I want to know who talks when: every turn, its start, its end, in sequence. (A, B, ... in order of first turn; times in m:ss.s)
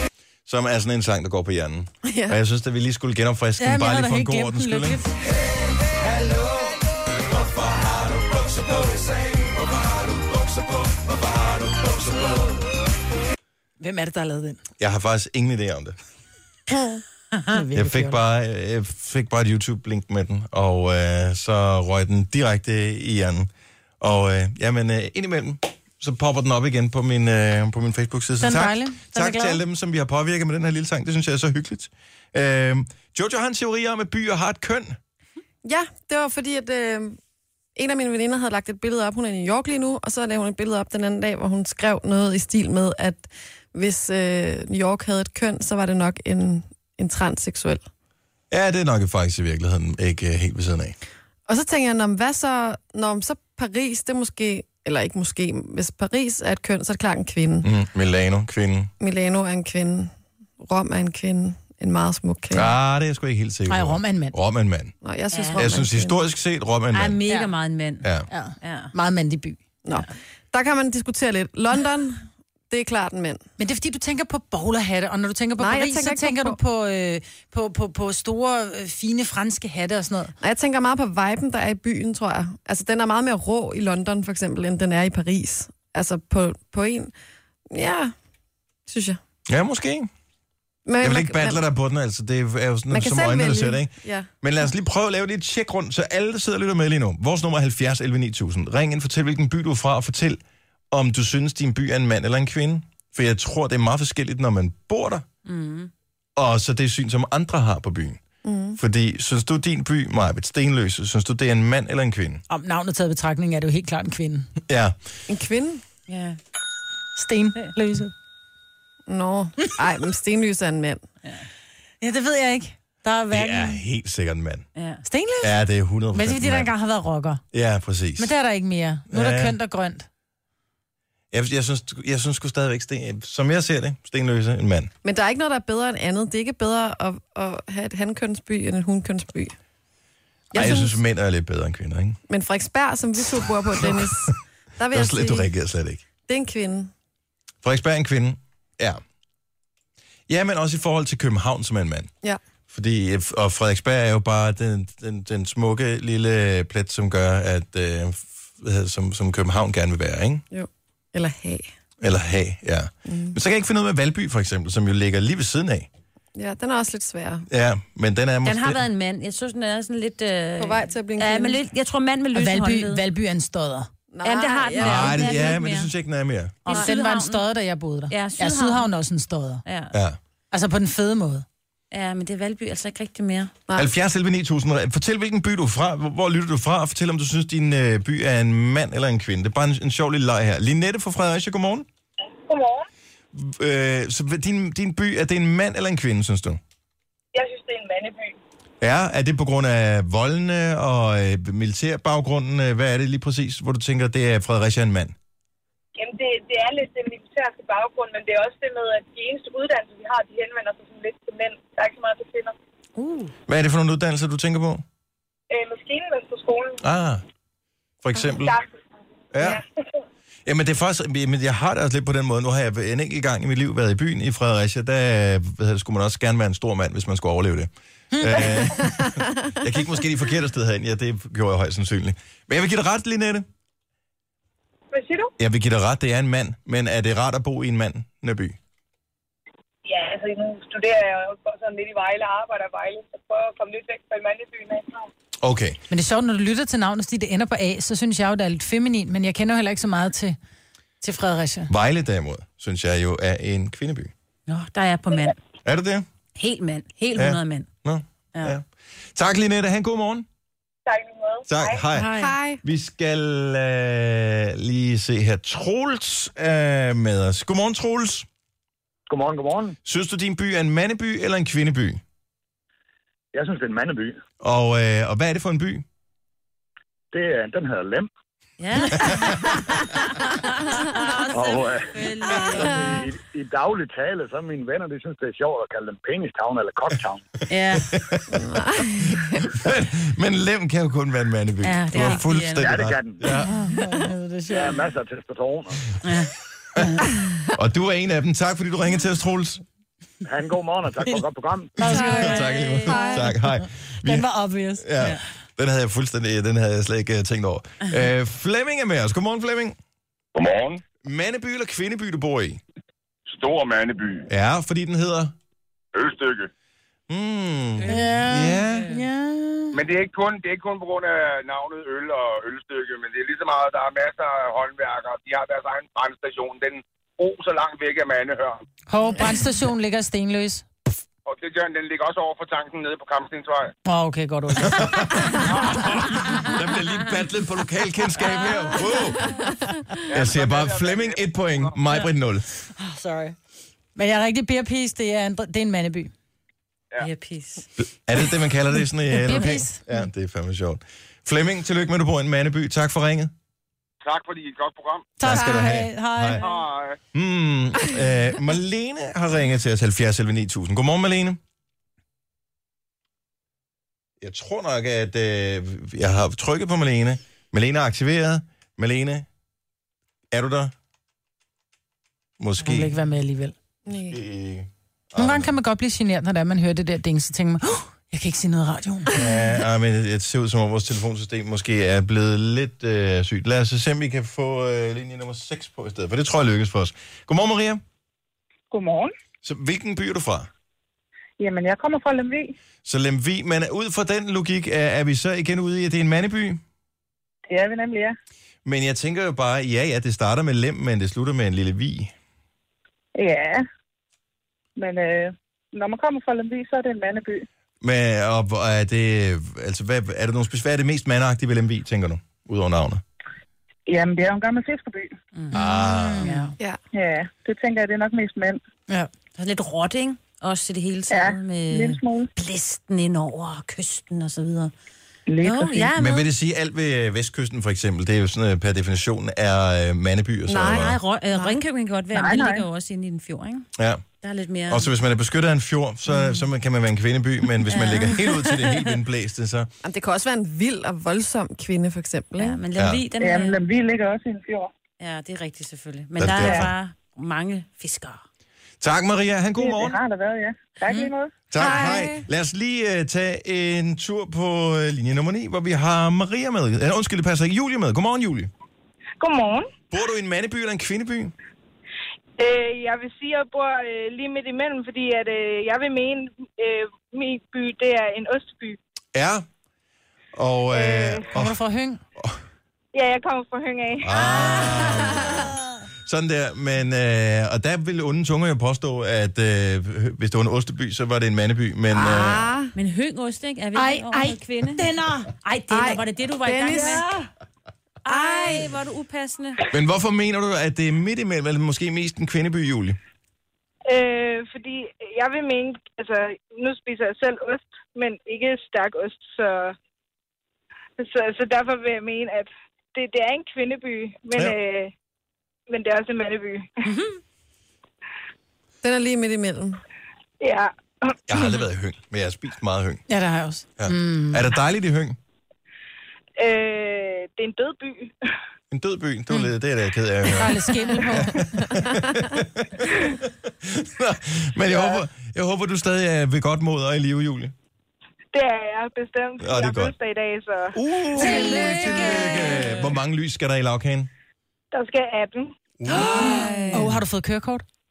0:00.4-0:05.0 A
0:02.1-0:02.4 B
0:03.6-0:05.1 C
0:07.5-0:09.1 A
0:10.0-0:12.5 A
0:13.8-0:14.6 C
0:14.8-0:16.0 A
0:17.4-0:18.2 C
0:17.7-0:35.0 A
0:28.4-0:29.6 C
0:35.6-0:37.2 B
0:37.8-0:47.8 B
0:48.5-0:51.0 A
0:51.5-0:57.7 B
0:57.6-0:58.9 A
0:59.0-1:02.7 B
1:02.5-1:04.9 A
1:03.7-1:04.4 C
1:05.0-1:06.2 B
1:05.3-1:05.6 D
1:05.5-1:07.2 A
1:06.9-1:08.1 D
1:08.0-1:08.3 A
1:08.3-1:09.6 C
1:08.6-1:08.9 D
1:09.8-1:13.4 B
1:13.6-1:20.3 C
1:15.6-1:16.6 B
1:20.4-1:27.1 B
1:27.7-1:28.1 B
1:28.9-1:29.2 B
1:29.5-1:30.1 A
1:30.8-1:31.6 B
1:31.0-1:40.4 A
1:32.9-1:34.3 B
1:40.9-1:45.2 A
1:45.4-1:45.9 D
1:46.4-1:48.2 A
1:48.4-1:48.8 B
1:48.8-1:52.4 A
1:52.5-1:54.5 C
1:54.6-1:55.0 A
1:55.3-1:55.8 B
1:56.1-1:56.4 D
1:57.2-1:58.1 C
1:59.1-2:01.0 B
2:02.0-2:03.8 C
2:03.3-2:04.6 A
2:04.8-2:05.0 D
2:05.0-2:05.6 C
2:05.4-2:06.7 A
2:06.1-2:07.4 C
2:07.5-2:08.3 A
2:08.2-2:10.1 C
2:09.1-2:09.6 A
2:11.3-2:14.9 A
2:15.0-2:19.5 B
2:20.5-2:21.0 B
2:20.5-2:22.2 A
2:22.3-2:25.5 B
2:23.8-2:24.3 A
2:24.9-2:26.0 A
2:26.3-2:26.9 B
2:27.6-2:29.0 A
2:30.3-2:32.1 A
2:32.7-2:40.4 A
2:40.5-2:41.7 B
2:42.0-2:45.9 A
2:43.1-2:43.4 B
2:46.3-2:47.5 B
2:47.5-2:48.8 A
2:48.4-2:53.0 D
2:50.6-2:51.6 B
2:52.3-2:53.9 C
2:54.1-2:55.5 B
2:54.2-2:55.9 D
2:54.8-2:56.6 A
2:56.6-2:57.4 D
2:56.7-2:59.6 C
2:58.1-2:58.9 D
2:59.6-2:59.9 D
2:59.9-3:00.2 A
3:00.5-3:01.4 C
3:01.9-3:03.5 D
3:03.8-3:11.8 A
3:12.5-3:12.8 E
3:13.3-3:16.6 A
3:17.3-3:18.4 E
3:18.8-3:25.1 A
3:26.0-3:32.5 E
3:33.0-3:33.3 D
3:33.5-3:34.8 A
3:35.5-3:36.8 E
3:36.8-3:37.2 A
3:38.0-3:38.5 A
3:38.2-3:38.7 E
3:39.3-3:39.6 A
3:40.4-3:53.4 A
3:48.1-3:48.6 C
3:48.8-3:49.2 B
3:54.9-3:55.3 E
3:55.4-3:58.6 A
3:59.8-4:05.1 E
4:05.4-4:05.8 A
4:05.9-4:10.4 C
4:11.0-4:11.7 C
4:11.7-4:14.1 A
4:14.5-4:15.4 D
4:15.6-4:16.0 A
4:16.4-4:17.7 D
4:17.1-4:20.2 A
4:20.9-4:21.8 E
4:21.5-4:28.3 A
4:22.0-4:22.6 B
4:29.1-4:29.8 F
4:29.8-4:32.0 A
4:33.3-4:34.2 F
4:34.4-4:35.8 A
4:37.1-4:38.1 F
4:38.6-4:39.6 D
4:40.2-4:43.0 D
4:41.3-4:47.2 F
4:47.5-4:47.9 D
4:47.8-4:48.4 A
4:48.3-4:49.4 B
4:49.0-4:53.6 A
4:51.6-4:52.9 D
4:52.6-4:53.2 F
4:53.4-4:54.8 C
4:54.5-4:55.8 F
4:56.0-4:56.3 D
4:56.8-4:59.6 A
5:00.2-5:01.8 F
5:01.8-5:03.5 C
5:01.8-5:09.8 A
5:01.9-5:02.3 B
5:01.9-5:03.1 D
5:02.9-5:03.1 B
5:04.0-5:04.9 C
5:10.3-5:10.8 G
5:11.0-5:12.6 A
5:13.3-5:14.3 G
5:14.3-5:15.3 A
5:15.9-5:16.5 G
5:17.1-5:18.9 A
5:17.8-5:19.7 C
5:19.7-5:28.6 G
5:28.9-5:30.6 C
5:31.2-5:33.7 G
5:33.8-5:35.4 C
5:34.6-5:39.4 A
5:35.4-5:35.9 G
5:40.1-5:41.8 G
5:40.1-5:42.6 A
5:42.8-5:43.3 D
5:44.0-5:46.1 C
5:47.0-5:47.7 D
5:47.8-5:53.3 A
5:49.1-5:49.8 C
5:54.0-5:55.2 G
5:55.2-5:56.4 C
5:55.2-5:56.4 A
5:56.4-5:57.0 G
5:57.1-6:01.4 A
6:04.2-6:09.2 A
6:10.3-6:10.7 A
6:12.4-6:12.9 A
6:12.6-6:13.5 C
6:13.9-6:14.2 B
6:13.9-6:15.5 A
6:15.2-6:19.1 C
6:19.1-6:27.8 A
6:28.7-6:29.1 H
6:29.4-6:30.5 A
6:31.4-6:32.5 H
6:32.8-6:36.6 A
6:37.5-6:38.2 H
6:38.6-6:42.1 A
6:43.1-6:43.6 H
6:44.8-6:47.4 H
6:47.8-6:53.0 A
6:53.9-6:55.1 H
6:55.5-6:56.3 A
6:56.2-6:56.5 D
6:56.2-6:56.5 C
6:56.9-6:58.6 H
6:59.3-7:04.7 D
7:01.1-7:02.3 H
7:05.3-7:05.9 H
7:05.4-7:06.3 D
7:05.9-7:11.0 A
7:10.5-7:11.5 B
7:10.5-7:13.7 D
7:12.1-7:12.6 H
7:13.8-7:14.0 A
7:14.2-7:14.9 D
7:14.7-7:19.7 A
7:17.7-7:18.6 D
7:19.8-7:22.6 B
7:22.4-7:23.6 D
7:22.8-7:23.0 A
7:23.2-7:24.7 H
7:25.0-7:28.2 D
7:26.2-7:26.7 A
7:26.3-7:26.7 H
7:28.8-7:30.0 A
7:29.6-7:31.4 H
7:31.5-7:38.5 A
7:31.6-7:32.2 B
7:39.2-7:39.7 I
7:39.9-7:41.3 A
7:42.4-7:48.8 I
7:49.1-7:49.4 A
7:50.3-7:51.6 A
7:50.7-7:51.2 I
7:51.3-7:52.0 C
7:52.9-7:54.5 I
7:54.0-8:02.5 A
7:54.8-7:55.2 B
8:01.9-8:02.7 B
8:02.7-8:04.9 D
8:03.8-8:05.3 C
8:05.4-8:07.0 D
8:05.7-8:07.1 B
8:08.0-8:09.6 D
8:08.1-8:08.7 B
8:09.7-8:13.0 A
8:13.9-8:19.8 I
8:21.0-8:24.9 I
8:25.7-8:26.7 I
8:28.8-8:29.8 B
8:30.4-8:31.2 I
8:31.3-8:33.0 A
8:33.1-8:34.5 C
8:33.8-8:35.2 A
8:36.4-8:38.3 I
8:38.7-8:47.5 A
8:40.3-8:41.5 C
8:41.8-8:42.0 B
8:44.7-8:45.0 I
8:48.3-8:50.8 I
8:49.4-8:49.9 A
8:50.7-8:54.1 A
8:51.2-8:52.7 C
8:51.2-8:52.2 B
8:54.7-8:55.5 I
8:55.8-8:56.6 A
8:55.9-8:57.0 B
8:55.9-8:57.6 C